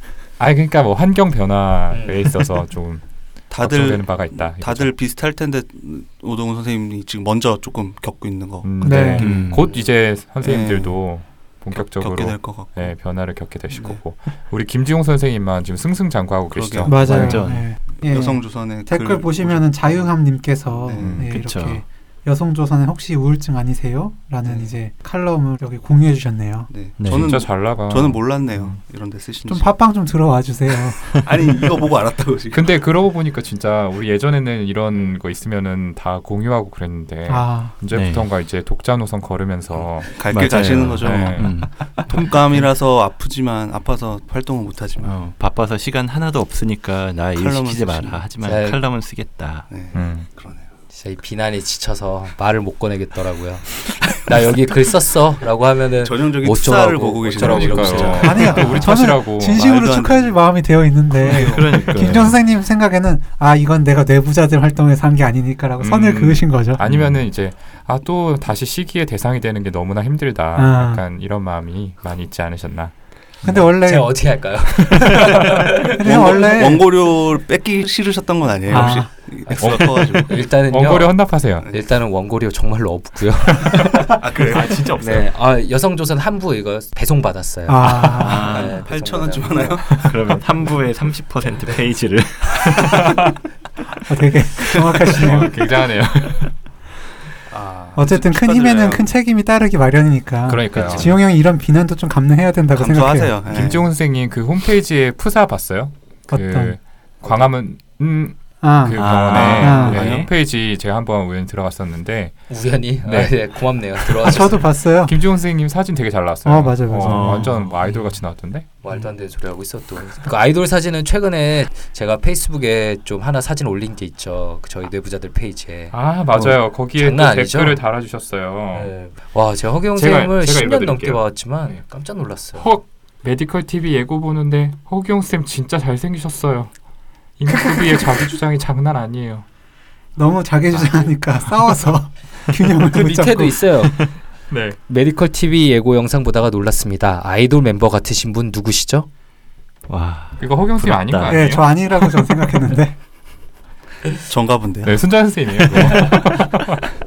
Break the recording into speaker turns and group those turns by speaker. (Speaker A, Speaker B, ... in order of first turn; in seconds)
Speaker A: 0.4-5.0, 8.6-17.4, 21.0-21.4, 27.0-28.8, 32.5-42.1, 49.9-50.3, 57.4-59.7, 65.8-72.9, 75.1-75.4, 78.7-79.0, 79.5-81.7, 84.5-85.3, 95.1-96.5, 100.5-101.2, 103.5-113.5, 114.0-118.7, 125.9-128.9, 129.9-131.8, 132.6-136.7, 137.4-139.5, 144.5-144.8, 150.4-151.7, 154.8-156.9
Speaker B: 1.9-2.3, 48.4-48.8, 50.9-58.9, 73.8-76.4, 80.3-84.2, 84.8-90.1, 112.5-114.6, 118.8-127.8, 128.7-132.7, 142.8-144.2, 144.9-149.1
Speaker C: 3.5-9.6, 10.4-11.2, 11.7-13.0, 13.7-14.0, 16.5-20.1, 20.7-21.3, 24.4-24.8, 26.7-29.8, 31.2-32.7, 39.8-45.2, 47.3-48.2, 49.7-50.7, 54.0-54.5, 56.0-58.9, 59.4-62.2, 76.0-80.3, 84.2-84.9, 88.5-90.2, 97.5-99.1, 102.7-103.9, 109.3-110.3, 154.3-155.1
Speaker D: 8.8-9.3, 16.9-26.7, 29.5-31.3, 37.3-37.8, 58.2-66.8, 70.5-71.0, 73.4-74.3, 76.0-76.9, 78.7-79.1, 87.7-88.5, 94.1-95.5, 98.0-103.5, 106.3-106.8, 108.6-110.0, 114.2-115.2, 116.4-117.5, 137.5-138.2, 140.2-143.7, 151.3-153.0
Speaker E: 9.1-9.7, 16.9-17.7, 21.2-21.8, 27.0-27.3, 37.9-38.3, 40.3-42.5, 45.0-49.7, 57.9-58.6, 61.4-62.4, 66.9-67.1, 88.1-88.8, 90.0-93.1, 100.6-101.1, 108.9-110.3, 117.0-117.7, 149.9-151.4, 155.6-156.2